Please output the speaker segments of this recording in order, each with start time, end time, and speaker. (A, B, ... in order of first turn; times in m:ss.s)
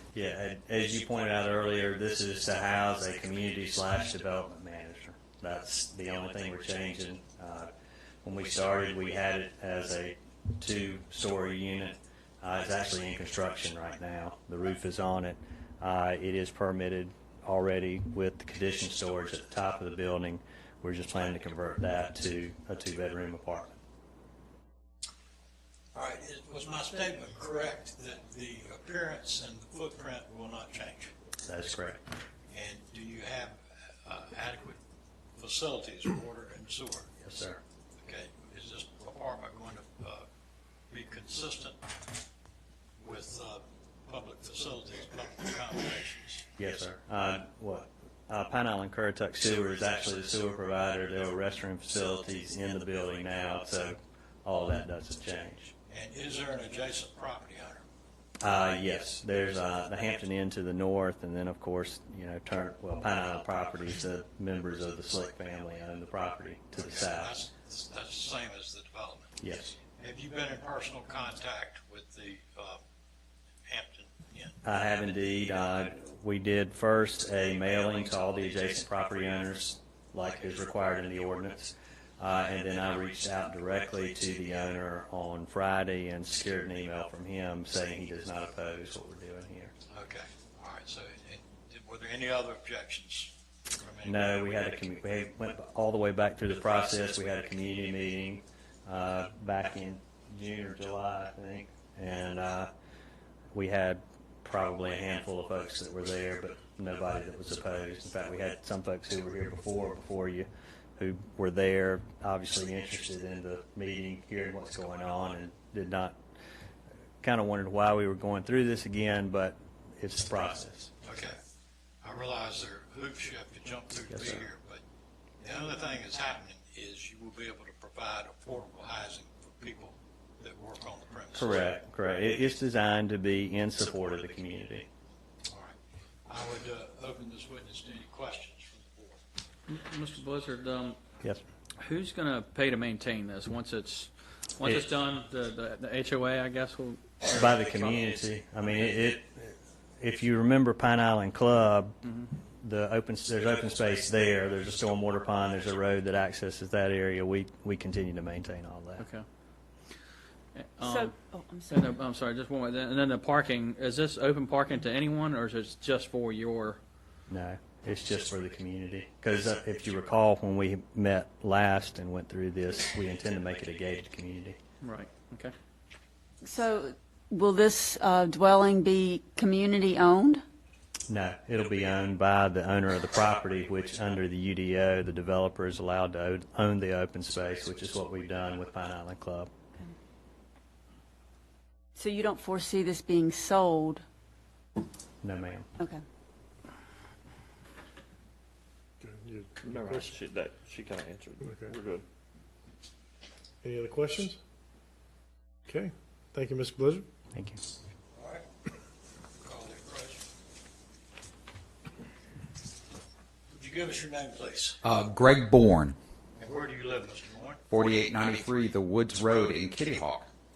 0:00.1-0:07.7 A
0:08.2-0:23.8 A
0:25.9-0:31.1 B
0:31.4-0:32.0 A
0:32.5-0:34.8 B
0:35.4-0:37.1 B
0:37.2-0:37.6 A
0:38.0-0:40.3 B
0:40.9-0:41.8 B
0:43.0-0:46.4 B
0:46.6-0:55.7 A
0:55.9-0:57.8 B
0:58.4-1:07.4 A
1:06.8-1:09.3 B
1:09.4-1:09.8 A
1:10.0-1:12.8 B
1:13.7-1:14.6 B
1:14.6-1:29.7 A
1:29.9-1:34.3 B
1:34.0-1:42.7 A
1:43.5-1:56.2 A
1:57.2-2:00.9 A
2:01.0-2:01.4 B
2:02.0-2:04.8 B
2:04.1-2:04.5 A
2:05.4-2:11.7 B
2:11.3-2:14.9 A
2:15.5-2:19.2 B
2:19.7-2:21.0 C
2:21.8-2:27.9 C
2:27.3-2:39.1 A
2:39.0-2:39.3 C
2:40.6-2:41.1 C
2:40.8-2:42.0 D
2:41.7-2:46.8 C
2:47.3-2:54.6 A
2:54.8-2:55.5 C
2:56.4-3:00.4 D
3:01.1-3:09.5 A
3:12.0-3:14.0 D
3:15.2-3:15.7 A
3:19.0-3:20.2 E
3:19.6-3:22.0 F
3:21.4-3:21.8 E
3:23.6-3:24.4 E
3:25.7-3:27.1 E
3:27.3-3:27.6 A
3:28.2-3:28.5 B
3:29.4-3:30.2 B
3:33.5-3:34.8 B
3:34.8-3:36.0 G
3:36.4-3:37.6 B
3:37.7-3:40.3 G